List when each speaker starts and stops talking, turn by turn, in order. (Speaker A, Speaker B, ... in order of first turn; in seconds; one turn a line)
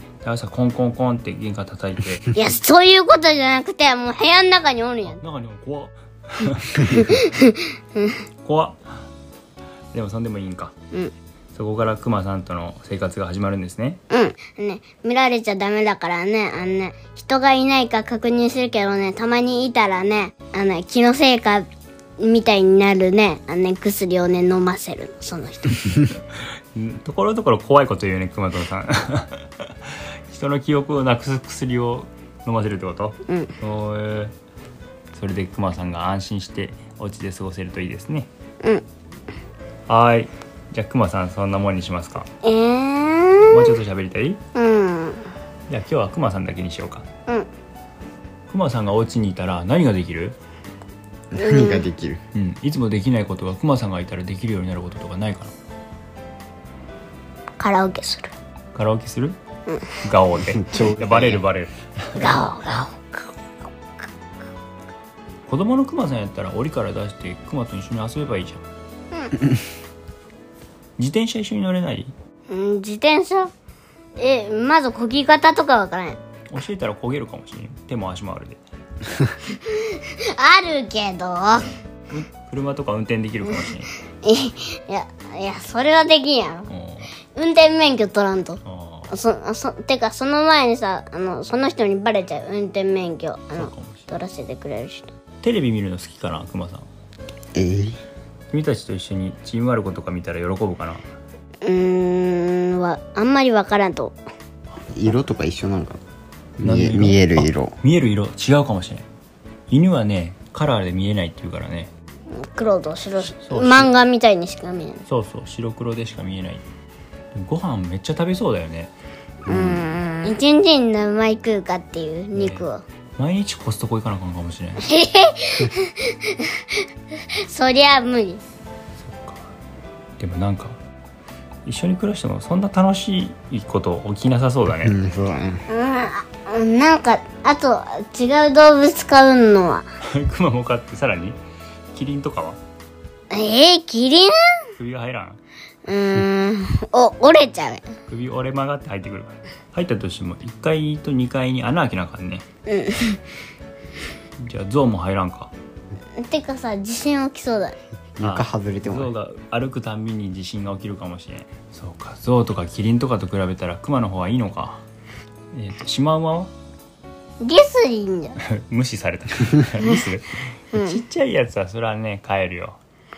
Speaker A: 0.2-2.3
Speaker B: 2.3-5.2
Speaker A: 5.1-7.3
Speaker B: 6.8-8.2
Speaker A: 8.4-9.1
Speaker A: 9.9-10.7
Speaker A: 11.5-14.0
Speaker B: 14.1-21.6
Speaker B: 22.2-26.0
Speaker A: 26.7-34.3
Speaker B: 33.3-33.5
Speaker A: 35.1-38.3
Speaker A: 39.9-42.3
Speaker B: 42.4-43.8
Speaker A: 43.5-44.4
Speaker B: 44.5-45.3
Speaker A: 45.7-47.0
Speaker A: 48.5-50.4
Speaker C: 51.3-52.2
Speaker B: 51.4-51.9
Speaker A: 52.3-55.5
Speaker B: 57.6-58.3
Speaker A: 58.7-59.4
Speaker A: 60.0-62.4
Speaker C: 60.6-61.4
Speaker B: 62.1-63.2
Speaker A: 65.5-68.6
Speaker A: 71.0-72.1
Speaker B: 72.5-73.5
Speaker B: 74.2-76.2
Speaker A: 76.5-78.6
Speaker B: 79.5-81.8
Speaker A: 82.1-83.9
Speaker B: 84.2-86.7
Speaker A: 86.7-87.1
Speaker B: 87.3-95.1
Speaker A: 88.6-89.1
Speaker A: 93.5-94.1
Speaker A: 95.4-96.9
Speaker C: 97.5-98.0
Speaker A: 98.5-101.0
Speaker B: 101.6-104.2
Speaker C: 104.9-106.0
Speaker C: 106.6-107.7
Speaker A: 106.6-109.0
Speaker A: 109.7-111.9
Speaker B: 112.3-115.0
Speaker A: 113.3-113.9
Speaker A: 115.1-116.7
Speaker A: 117.3-118.9
Speaker B: 119.5-122.8
Speaker C: 119.5-119.8
Speaker A: 122.3-124.9
Speaker B: 124.8-126.8
Speaker B: 127.4-128.4
Speaker A: 129.0-129.5
Speaker A: 130.2-130.8
Speaker A: 131.7-134.9
Speaker C: 134.8-135.6
Speaker B: 135.7-139.8
Speaker A: 140.1-141.4
Speaker A: 141.9-142.6
Speaker B: 143.3-144.7
Speaker A: 144.8-145.4
Speaker B: 145.8-147.9
Speaker A: 148.1-152.4
Speaker B: 152.7-153.2
Speaker A: 154.4-155.5
Speaker B: 156.2-157.8
Speaker C: 158.2-159.1
Speaker A: 158.2-164.8
Speaker A: 165.5-166.5
Speaker B: 167.4-168.4
Speaker A: 168.4-172.8
Speaker B: 169.8-170.0
Speaker B: 170.7-171.0